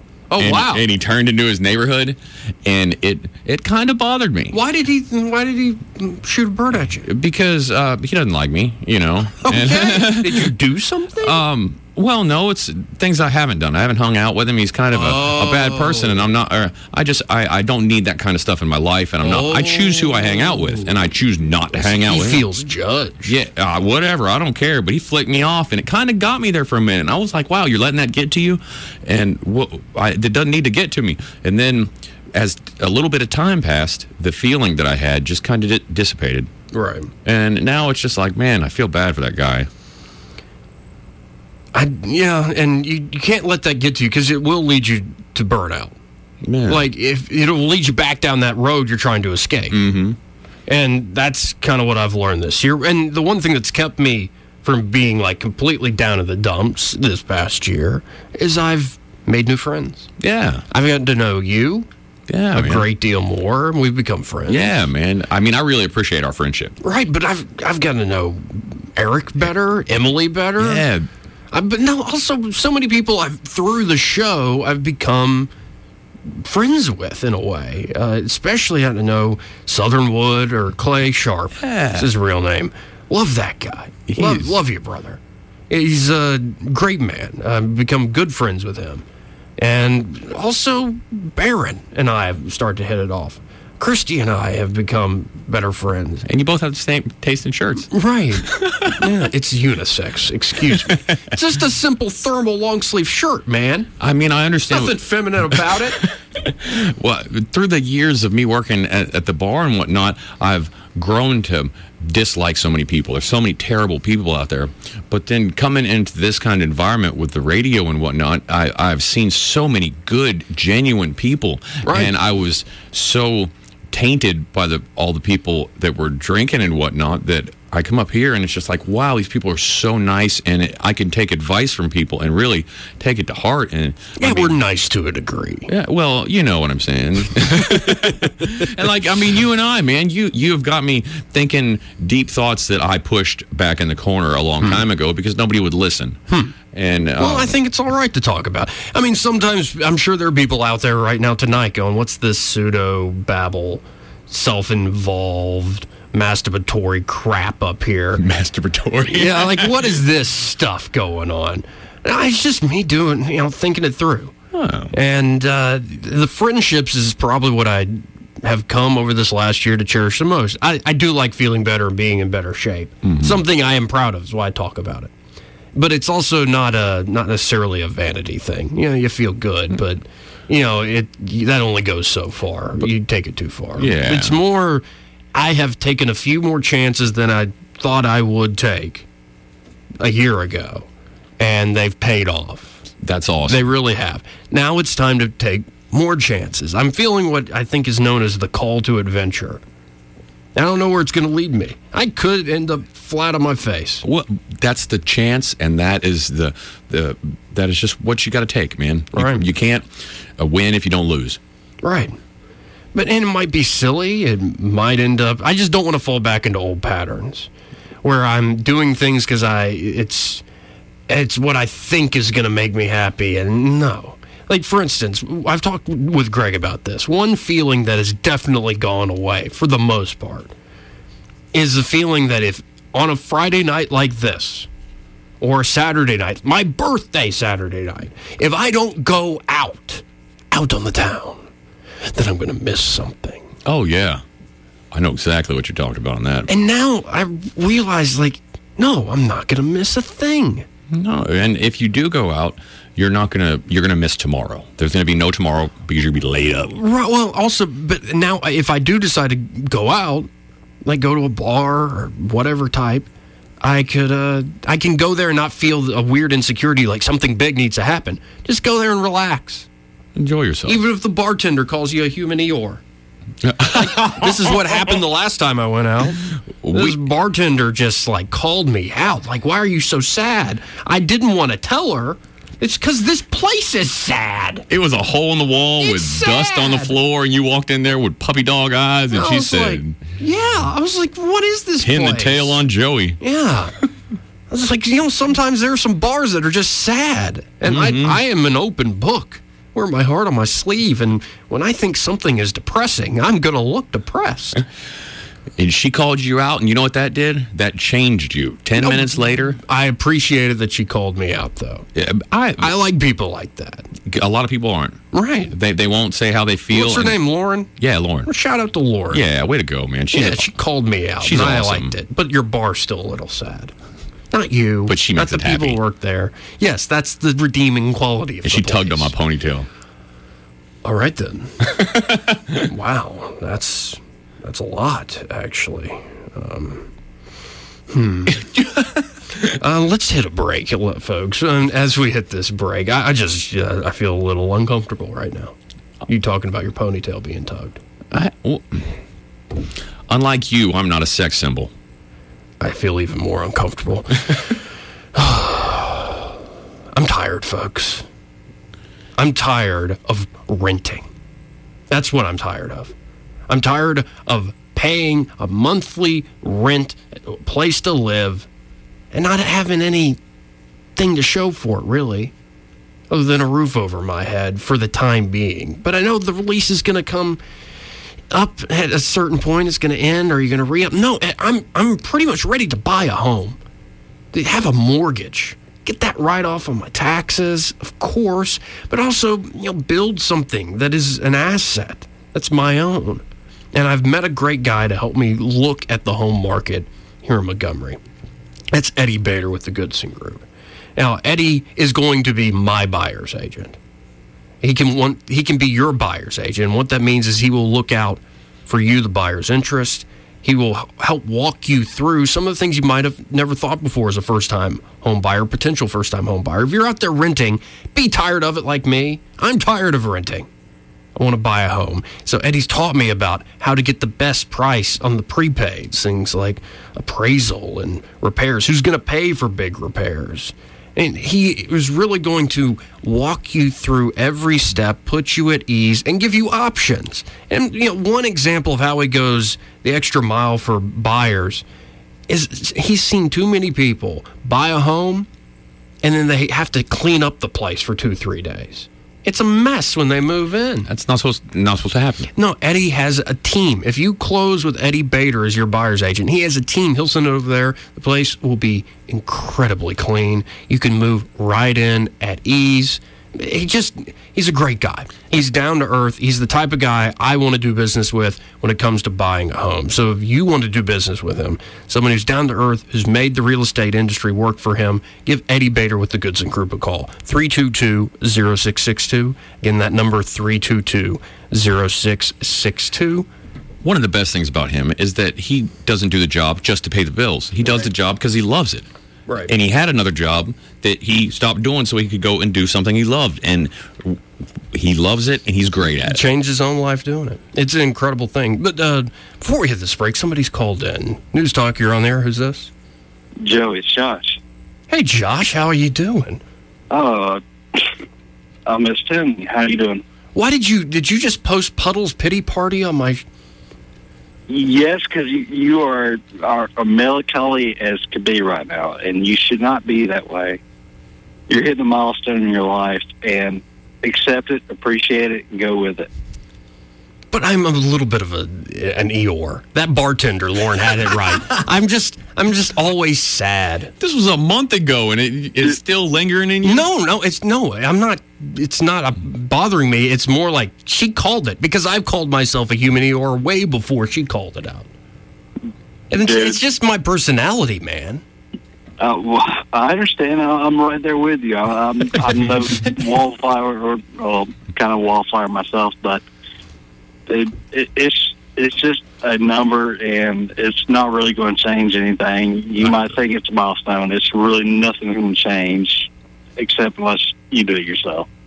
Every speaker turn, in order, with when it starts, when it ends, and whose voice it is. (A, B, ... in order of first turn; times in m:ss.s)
0:00.3-0:00.8 A
0:00.4-0:04.6 B
0:04.5-0:07.0 A
0:07.0-0:10.5 B
0:09.4-0:11.4 A
0:11.2-0:22.4 B
0:14.9-0:16.3 A
0:19.2-0:20.9 A
0:21.7-0:23.3 A
0:23.2-0:36.5 B
0:36.7-0:37.1 A
0:37.2-0:39.7 B
0:41.7-0:46.0 A
0:46.4-0:46.8 B
0:46.6-0:49.8 A
0:49.7-0:50.2 B
0:50.7-1:00.1 A
1:00.2-1:00.6 B
1:00.7-1:01.9 A
1:02.3-1:02.8 B
1:02.5-1:04.7 A
1:04.5-1:06.7 B
1:06.8-1:10.8 A
1:10.6-1:11.1 B
1:11.5-1:15.5 A
1:16.3-1:29.0 A
1:21.6-1:22.1 B
1:24.1-1:24.5 B
1:29.6-1:36.2 A
1:36.3-1:37.9 B
1:37.9-1:43.9 A
1:38.5-1:39.0 B
1:44.0-1:45.0 B
1:44.7-1:46.0 A
1:46.4-2:14.5 B
2:01.8-2:02.1 A
2:14.2-2:15.7 A
2:15.7-2:26.2 B
2:26.7-2:27.5 B
2:27.2-2:38.2 A
2:38.2-2:39.8 B
2:39.1-2:44.3 A
2:44.5-2:44.9 B
2:44.9-2:55.1 A
2:53.0-2:53.4 B
2:55.7-3:09.1 A
3:03.8-3:04.4 B
3:10.0-3:10.9 A
3:11.4-3:12.8 A
3:13.0-3:13.6 B
3:13.5-3:19.6 A
3:20.5-3:24.0 A
3:24.0-3:31.4 B
3:29.1-3:29.4 A
3:31.8-3:32.1 A
3:32.9-3:37.5 A
3:38.0-3:40.4 A
3:41.1-3:50.5 A
3:51.5-3:54.7 A
3:55.4-4:01.4 A
4:02.1-4:03.5 A
4:03.6-4:04.2 B
4:04.9-4:06.5 B
4:06.5-4:10.6 A
4:10.9-4:16.8 B
4:16.7-4:20.3 A
4:20.8-4:23.1 A
4:23.6-4:29.7 A
4:30.2-4:30.8 B
4:30.6-4:32.8 A
4:33.4-4:34.5 B
4:33.6-4:44.6 A
4:36.6-4:37.0 B
4:44.7-4:50.1 B
4:45.8-4:47.0 A
4:49.1-4:52.6 A
4:51.8-4:53.2 B
4:53.2-4:53.8 A
4:54.5-5:04.6 A
4:57.6-4:58.2 B
5:05.6-5:09.6 B
5:08.7-5:11.9 A
5:11.9-5:12.7 B
5:12.6-5:13.9 A
5:14.0-5:17.2 B
5:15.1-5:15.5 A
5:16.7-5:17.7 A
5:17.8-5:18.3 B
5:18.2-5:19.2 A
5:19.1-5:20.5 B
5:20.1-5:23.7 A
5:21.2-5:21.9 B
5:24.3-5:29.1 A
5:24.9-5:25.8 B
5:28.4-5:29.7 B
5:30.8-5:31.5 A
5:31.7-5:32.6 B
5:32.6-5:36.9 A
5:37.9-5:38.4 A
5:38.4-5:39.0 B
5:39.5-5:45.5 A
5:46.1-5:47.8 A
5:48.1-5:48.8 B
5:50.1-5:51.7 B
5:52.6-5:54.6 A
5:55.1-5:56.4 A
5:56.9-5:58.0 A
5:59.2-6:01.1 A
6:01.9-6:02.9 A
6:03.5-6:08.5 A
6:09.1-6:10.2 A
6:11.0-6:12.3 A
6:13.1-6:17.4 A
6:18.3-6:23.6 A
6:24.3-6:38.0 A
6:38.7-6:43.8 A
6:44.6-7:00.5 A
7:01.2-7:21.6 A
7:22.3-7:25.3 A
7:26.0-7:30.9 A
7:30.9-7:32.3 B
7:32.3-8:03.3 A
8:03.8-8:08.9 B
8:09.3-8:09.5 A
8:09.5-8:14.2 B
8:14.7-8:16.2 B
8:16.1-8:22.7 A
8:23.4-8:24.4 C
8:24.9-8:26.4 A
8:26.9-8:27.9 C
8:28.6-8:30.0 C
8:30.3-8:33.2 A
8:34.5-8:40.6 C
8:41.5-8:46.1 C
8:47.3-8:53.9 A
8:54.0-8:56.8 B
8:56.6-9:04.9 A
9:06.1-9:08.2 A
9:06.2-9:06.6 C
9:09.0-9:16.2 C
9:17.3-9:28.3 C